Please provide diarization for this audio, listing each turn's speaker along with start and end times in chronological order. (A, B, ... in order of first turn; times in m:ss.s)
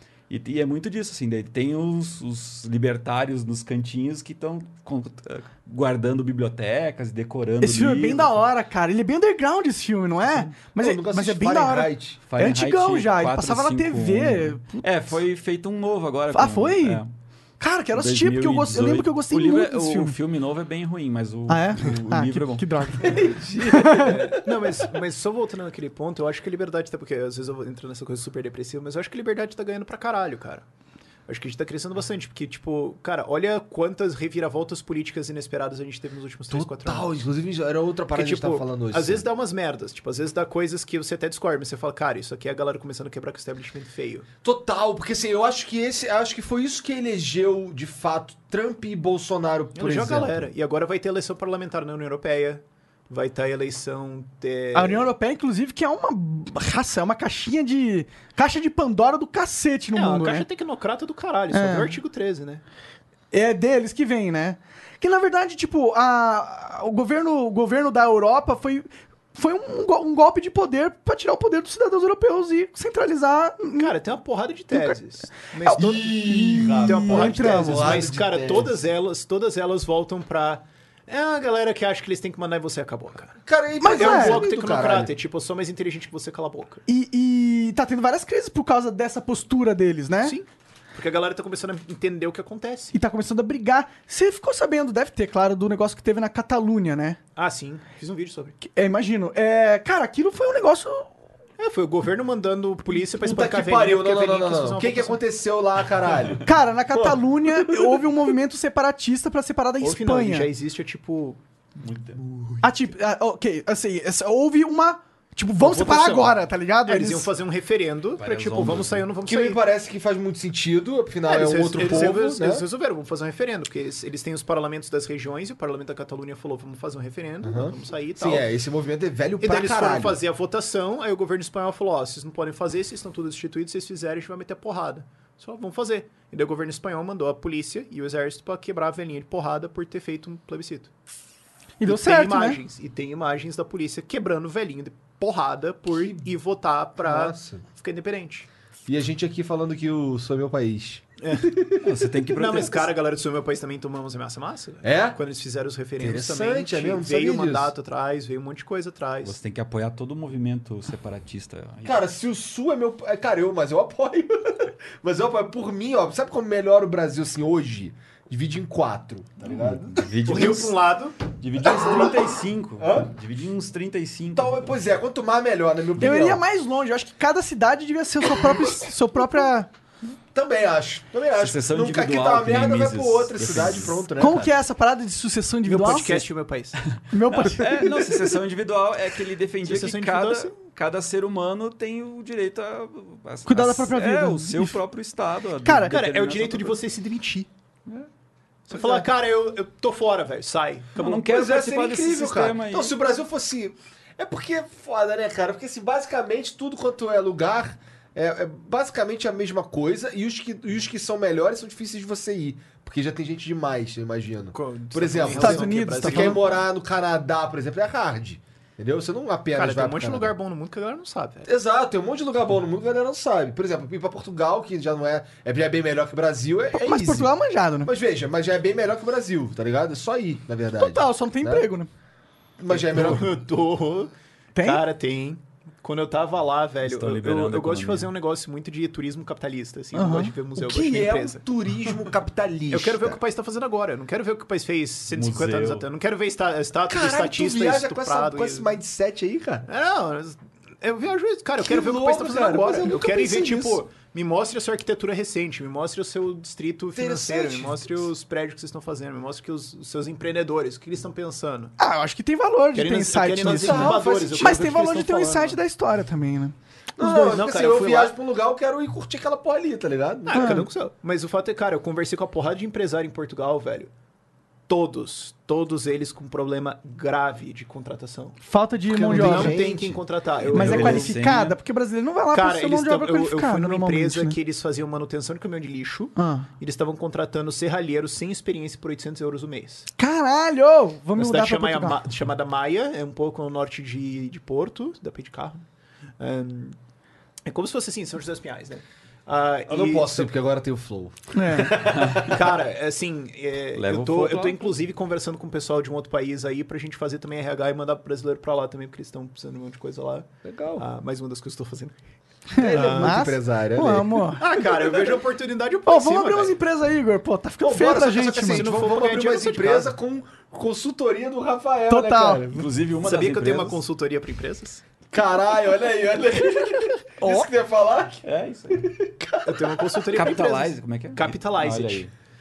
0:00.3-0:08.4 A
0:07.6-0:14.8 B
0:10.7-0:12.2 C
0:12.3-0:17.1 A
0:16.3-0:17.0 B
0:17.6-0:20.2 B
0:17.9-0:23.2 A
0:21.5-0:24.1 B
0:23.0-0:24.7 C
0:24.0-0:30.6 D
0:31.3-0:37.1 D
0:36.5-0:39.2 C
0:38.1-0:44.3 D
0:44.4-0:50.5 C
0:49.7-0:55.1 D
0:54.7-1:00.4 B
0:59.9-1:02.6 D
1:01.5-1:02.0 B
1:03.3-1:13.9 B
1:13.8-1:16.2 D
1:14.7-1:15.0 B
1:15.6-1:18.0 B
1:15.8-1:18.8 C
1:16.8-1:26.8 D
1:23.4-1:25.1 C
1:23.8-1:24.4 B
1:26.9-1:30.4 B
1:30.2-1:32.9 D
1:32.9-1:37.2 B
1:37.4-1:38.6 D
1:38.6-1:41.1 B
1:41.6-1:45.2 D
1:43.1-1:48.1 C
1:46.4-1:50.5 B
1:49.8-1:51.4 D
1:51.8-1:52.2 A
1:52.6-1:57.3 B
1:55.6-1:56.3 D
1:56.8-1:59.6 D
1:58.2-1:59.0 A
1:59.2-2:02.6 C
2:01.3-2:08.5 D
2:07.4-2:10.2 C
2:09.4-2:20.9 D
2:21.8-2:22.6 B
2:21.8-2:28.5 D
2:27.0-2:27.6 C
2:28.8-2:32.1 C
2:31.2-2:31.6 D
2:31.8-2:32.9 A
2:32.3-2:39.3 D
2:34.8-2:35.2 C
2:36.0-2:37.7 C
2:39.2-2:42.0 A
2:41.8-2:50.5 C
2:49.5-2:50.7 A
2:50.2-2:51.2 D
2:51.4-2:54.7 A
2:51.6-2:53.1 C
2:54.3-2:56.4 C
2:56.0-2:59.7 B
3:00.3-3:04.5 C
3:01.4-3:04.1 A
3:04.2-3:06.2 B
3:05.7-3:06.8 D
3:07.0-3:16.8 A
3:07.1-3:07.9 B
3:09.6-3:10.5 D
3:13.4-3:14.8 B
3:15.6-3:15.9 B
3:15.9-3:17.5 D
3:18.7-3:21.3 D
3:18.7-3:19.0 C
3:21.0-3:22.9 A
3:21.1-3:40.3 C
3:34.5-3:36.6 D
3:35.3-3:36.4 B
3:39.5-3:41.5 D
3:41.4-3:47.3 C
3:46.8-3:47.9 B
3:47.8-3:51.7 C
3:50.8-3:51.9 B
3:52.6-3:53.4 C
3:52.7-4:01.4 D
3:54.6-3:54.8 B
3:56.8-3:58.1 A
3:59.9-4:00.3 B
4:00.6-4:03.2 C
4:02.7-4:08.7 D
4:05.1-4:05.8 A
4:06.9-4:09.7 C
4:09.7-4:21.8 D
4:11.6-4:13.8 C
4:17.0-4:18.1 C
4:21.8-4:27.4 B
4:22.7-4:25.6 D
4:23.4-4:24.7 C
4:27.0-4:30.6 C
4:27.2-4:28.1 D
4:30.2-4:33.9 D
4:30.3-4:30.7 B
4:34.7-4:38.4 D
4:38.5-4:39.6 B
4:38.9-4:40.0 C
4:39.1-4:41.2 D
4:40.4-4:41.6 A
4:40.5-4:44.4 B
4:42.3-4:49.9 D
4:46.2-4:46.5 B
4:50.0-4:52.0 B
4:51.2-4:55.6 D
4:56.2-4:56.8 D
4:57.4-5:00.3 D
4:59.7-5:02.5 C
5:01.3-5:01.7 B
5:01.9-5:02.3 A
5:02.3-5:12.0 D
5:03.7-5:04.7 A
5:10.4-5:10.8 C
5:12.5-5:14.4 B
5:12.6-5:14.2 C
5:12.6-5:13.2 D
5:14.4-5:16.5 D
5:15.8-5:18.7 B
5:17.6-5:22.6 C
5:18.4-5:19.9 D
5:21.9-5:22.5 B
5:22.5-5:23.8 A
5:23.0-5:24.8 D
5:25.1-5:30.1 C
5:27.2-5:27.5 B
5:28.2-5:28.8 A
5:29.4-5:32.1 D
5:30.1-5:32.1 A